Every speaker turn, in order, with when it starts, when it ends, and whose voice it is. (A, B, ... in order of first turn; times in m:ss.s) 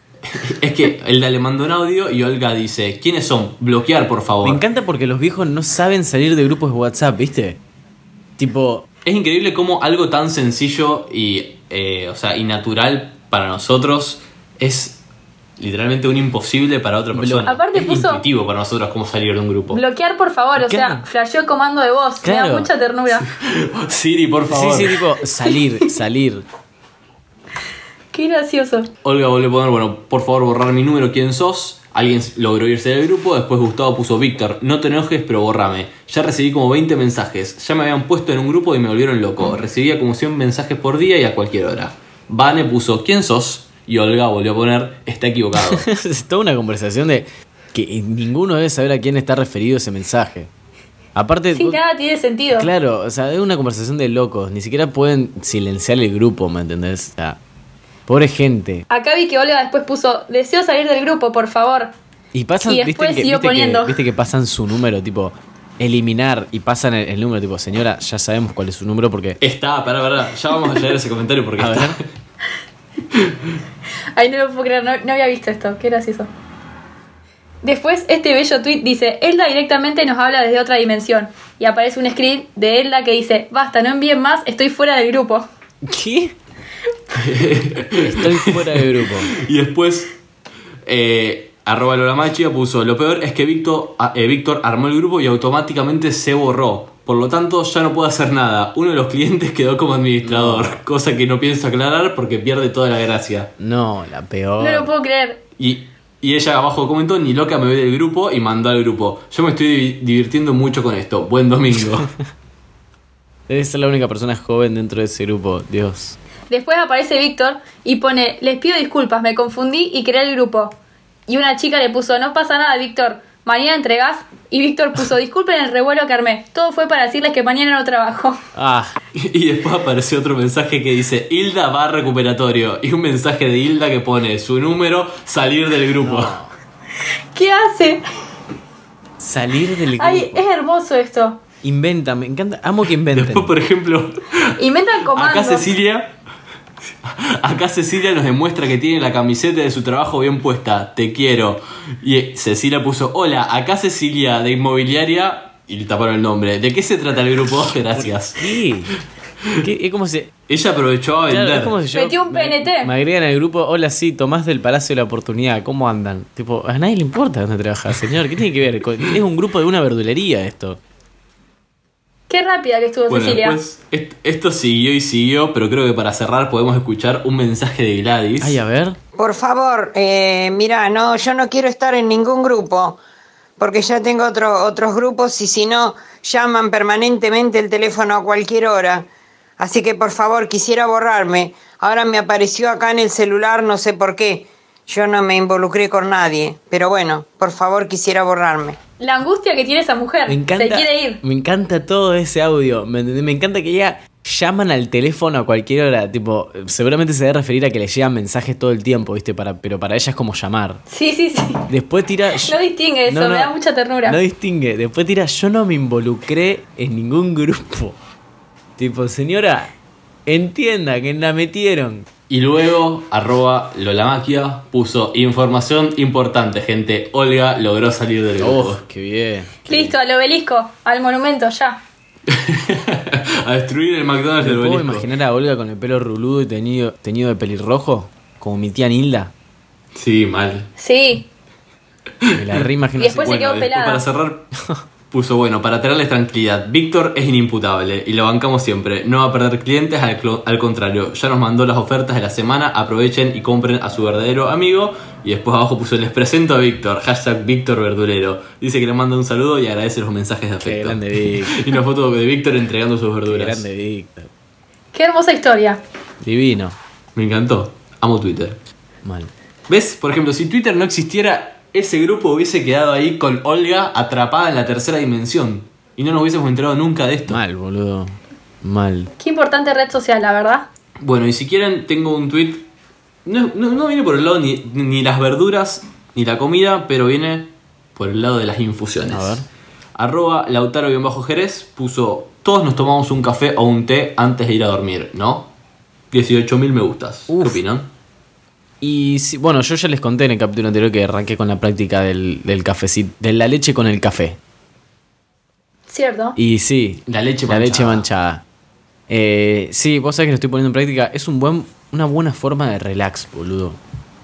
0:00.3-0:04.6 A
0:04.4-0:07.6 B
0:08.4-0:08.9 B
0:09.0-0:15.0 A
0:15.6-0:19.8 A
0:17.1-0:17.5 B
0:17.4-0:18.2 C
0:19.7-0:23.3 C
0:20.6-0:21.0 B
0:22.2-0:22.7 B
0:23.2-0:25.0 A
0:24.5-0:26.4 B
0:28.1-0:28.9 C
0:29.0-0:45.8 A
0:45.6-0:50.5 B
0:51.1-0:51.8 B
0:51.5-0:52.7 C
0:52.5-0:57.4 B
0:58.1-0:58.8 B
0:58.9-1:01.9 C
1:02.3-1:09.4 B
1:02.6-1:04.0 C
1:09.4-1:12.0 A
1:11.6-1:12.0 B
1:14.1-1:16.3 C
1:17.6-1:25.4 C
1:25.8-1:26.3 B
1:27.2-1:30.1 A
1:28.0-1:29.3 B
1:30.8-1:43.5 A
1:40.2-1:40.8 B
1:43.6-1:44.9 B
1:44.6-1:45.4 C
1:45.6-1:52.1 A
1:53.5-1:56.2 B
1:56.5-2:00.8 C
2:01.3-2:08.4 C
2:08.5-2:09.0 B
2:09.1-2:16.4 A
2:16.0-2:16.5 B
2:17.3-2:18.0 C
2:19.2-2:20.4 B
2:20.0-2:21.4 C
2:21.6-2:23.5 B
2:23.1-2:24.4 A
2:24.6-2:25.7 C
2:25.1-2:26.2 A
2:27.0-2:38.4 A
2:37.9-2:39.0 B
2:39.6-2:40.3 B
2:40.5-2:41.8 A
2:41.3-2:50.8 B
2:41.9-2:42.9 C
2:52.3-2:53.6 C
2:53.1-2:58.6 A
2:58.4-2:59.0 B
2:59.2-3:03.0 D
3:03.6-3:09.1 D
3:09.6-3:18.8 D
3:19.0-3:21.2 C
3:20.3-3:30.8 B
3:30.9-3:31.7 C
3:31.7-3:33.5 B
3:32.3-3:34.2 C
3:34.0-3:38.0 B
3:38.8-3:39.7 B
3:40.2-3:42.1 B
3:42.3-3:48.8 A
3:48.4-3:50.0 B
3:49.7-3:51.8 C
3:52.3-3:55.1 A
3:54.4-3:59.3 B
3:59.9-4:00.7 A
4:00.8-4:01.3 C
4:02.2-4:02.6 A
4:02.3-4:03.4 B
4:03.0-4:04.0 C
4:03.2-4:04.5 A
4:05.1-4:23.6 A
4:20.6-4:21.6 B
4:23.2-4:24.3 B
4:24.9-4:25.8 C
4:26.2-4:26.8 B
4:27.2-4:28.6 A
4:29.0-4:29.3 B
4:29.7-4:37.4 A
4:37.3-4:39.1 B
4:39.2-4:40.7 C
4:41.0-4:42.7 A
4:43.2-4:49.4 A
4:49.1-4:49.5 B
4:50.0-4:55.5 A
4:56.1-4:57.9 A
4:57.3-4:57.6 B
4:58.8-5:04.4 B
5:05.9-5:06.4 C
5:06.4-5:08.4 B
5:07.1-5:08.0 A
5:09.1-5:13.8 B